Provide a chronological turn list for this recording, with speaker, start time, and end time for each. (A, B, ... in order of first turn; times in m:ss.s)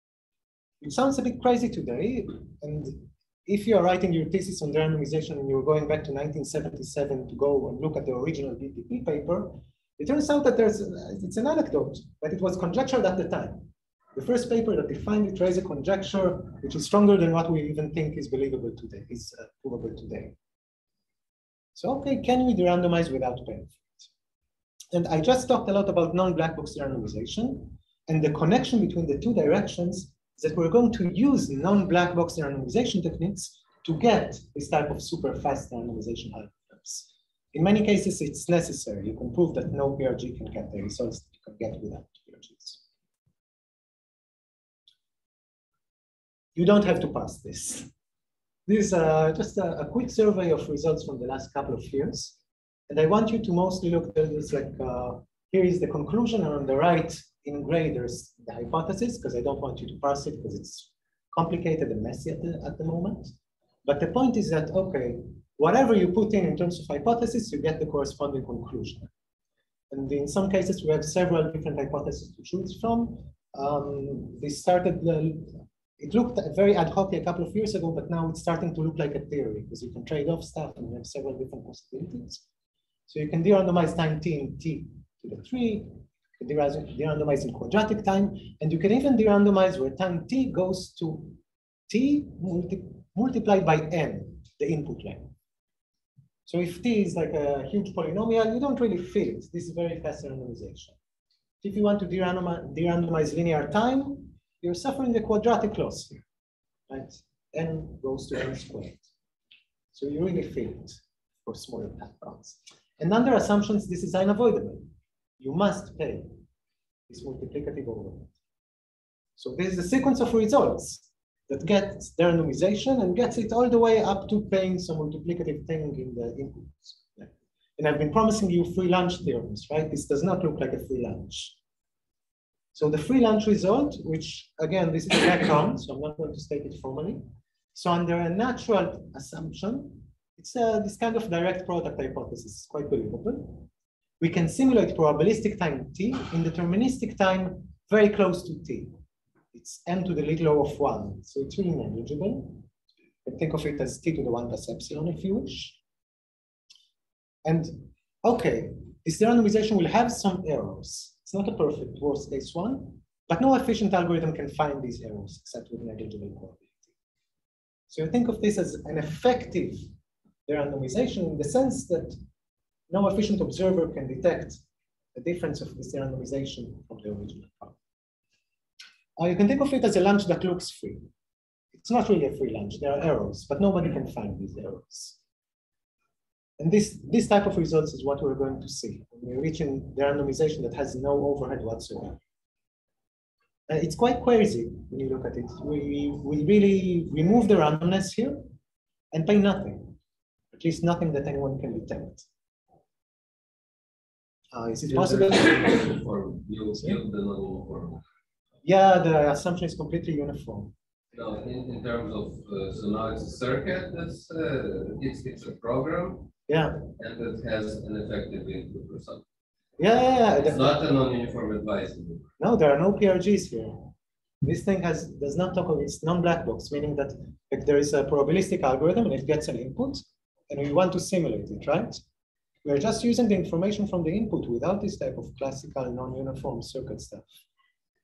0:00.8-0:20.4 A
0:21.8-0:24.1 A
0:24.9-0:42.8 A
0:46.6-0:47.9 A
0:48.7-0:52.4 A
0:52.9-1:03.3 A
1:03.8-1:09.1 A
1:09.9-1:22.4 A
1:23.1-1:35.3 A
1:36.5-1:41.0 A
1:41.6-1:46.2 A
1:46.9-1:49.0 A
1:49.9-1:56.4 A
1:57.1-1:58.3 A
1:59.4-2:11.6 A
2:12.8-2:17.2 A
2:17.7-2:23.7 A
2:24.2-2:29.0 A
2:29.5-2:32.7 A
2:33.2-2:35.8 A
2:37.4-2:46.8 A
2:47.9-2:49.8 A
2:50.5-2:52.2 A
2:52.9-2:54.6 A
2:55.2-2:57.8 A
2:59.2-3:01.1 A
3:01.7-3:05.2 A
3:06.6-3:12.2 A
3:13.7-3:18.5 A
3:19.1-3:20.0 A
3:20.5-3:22.2 A
3:24.5-3:25.8 A
3:24.9-3:28.0 B
3:28.6-3:30.7 A
3:31.1-3:36.3 B
3:36.5-3:36.8 A
3:37.0-3:39.2 B
3:39.8-3:40.8 A
3:40.4-3:42.3 B
3:42.4-3:43.9 A
3:44.4-3:52.0 A
3:52.6-3:57.3 A